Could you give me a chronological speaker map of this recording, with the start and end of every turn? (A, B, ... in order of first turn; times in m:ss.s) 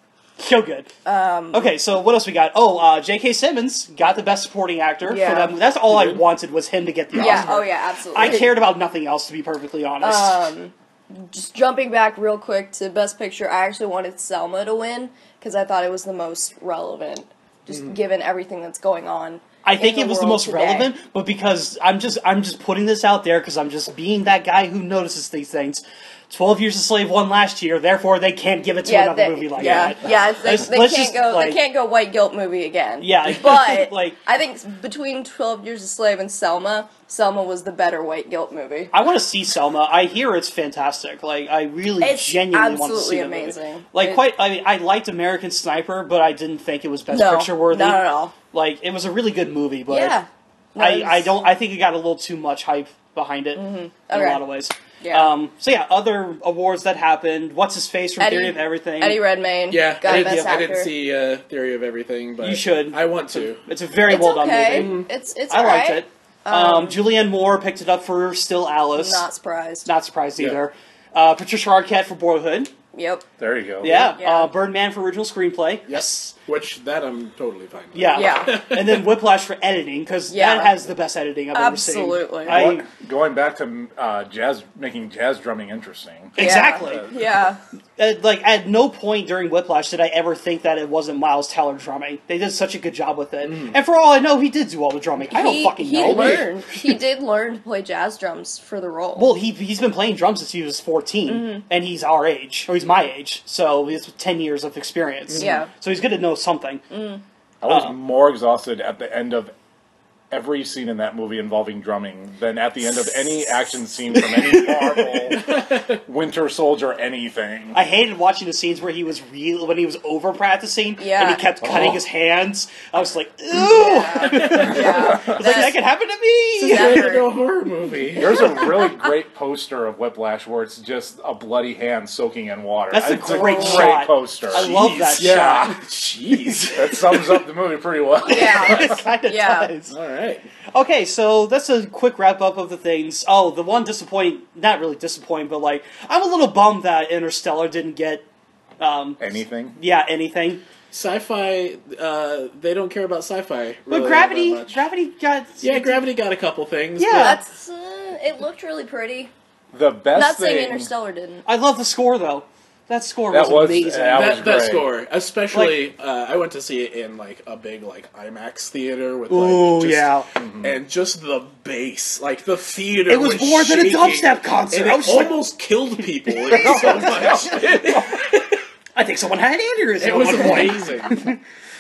0:00.4-0:00.9 A
0:01.0-0:01.7 B
0:01.5-0:10.4 A
0:05.0-0:05.5 B
0:05.9-0:06.2 C
0:07.1-0:08.5 B
0:10.0-0:20.9 B
0:19.6-0:31.6 A
0:28.8-0:38.9 B
0:33.0-0:34.2 A
0:38.9-0:50.2 A
0:42.0-0:44.2 B
0:47.1-0:48.3 B
0:49.9-0:51.3 B
0:50.8-0:59.2 A
0:53.5-0:54.4 B
0:55.0-0:55.3 B
0:58.2-1:00.9 B
0:59.7-1:03.6 C
1:00.0-1:00.5 A
1:02.4-1:09.2 A
1:04.0-1:07.0 B
1:04.7-1:05.1 C
1:08.9-1:09.9 B
1:09.8-1:12.7 A
1:12.9-1:13.2 B
1:13.4-1:14.1 D
1:13.8-1:14.5 B
1:13.8-1:16.3 A
1:15.9-1:19.1 C
1:17.9-1:22.9 A
1:18.1-1:18.6 B
1:20.3-1:20.7 B
1:21.5-1:22.7 B
1:22.5-1:27.0 D
1:26.3-1:27.0 A
1:26.4-1:27.6 B
1:28.0-1:36.5 A
1:33.4-1:33.8 C
1:35.3-1:39.3 B
1:36.1-1:36.4 C
1:39.2-1:46.8 A
1:41.3-1:41.6 B
1:45.3-1:45.6 C
1:45.4-1:45.7 B
1:46.9-1:47.2 B
1:47.6-1:49.5 D
1:47.7-1:47.9 A
1:50.3-1:57.8 D
1:54.5-1:55.2 A
1:55.4-1:56.0 C
1:57.7-2:07.2 A
2:01.0-2:01.4 B
2:01.6-2:02.0 D
2:03.5-2:05.8 B
2:04.5-2:04.8 C
2:04.7-2:05.6 D
2:06.6-2:07.3 B
2:06.6-2:08.6 C
2:08.1-2:15.8 D
2:12.9-2:15.7 A
2:13.2-2:14.0 B
2:14.5-2:17.4 C
2:16.7-2:19.0 D
2:18.2-2:19.7 B
2:18.3-2:20.0 A
2:19.9-2:20.5 C
2:20.7-2:28.2 A
2:28.8-2:29.2 A
2:29.2-2:29.8 D
2:29.7-2:30.6 A
2:30.9-2:34.9 C
2:33.9-2:36.0 A
2:35.6-2:37.4 C
2:37.0-2:37.4 A
2:37.0-2:39.3 B
2:39.7-2:40.9 D
2:40.1-2:41.4 B
2:41.4-2:44.4 A
2:43.3-2:44.9 D
2:44.1-2:58.6 C
2:45.5-2:45.8 A
2:49.3-2:50.3 A
2:50.4-2:50.7 D
2:53.1-2:55.4 A
2:56.4-2:57.3 A
2:56.5-2:58.3 D
2:58.9-3:01.4 A
3:00.0-3:01.2 C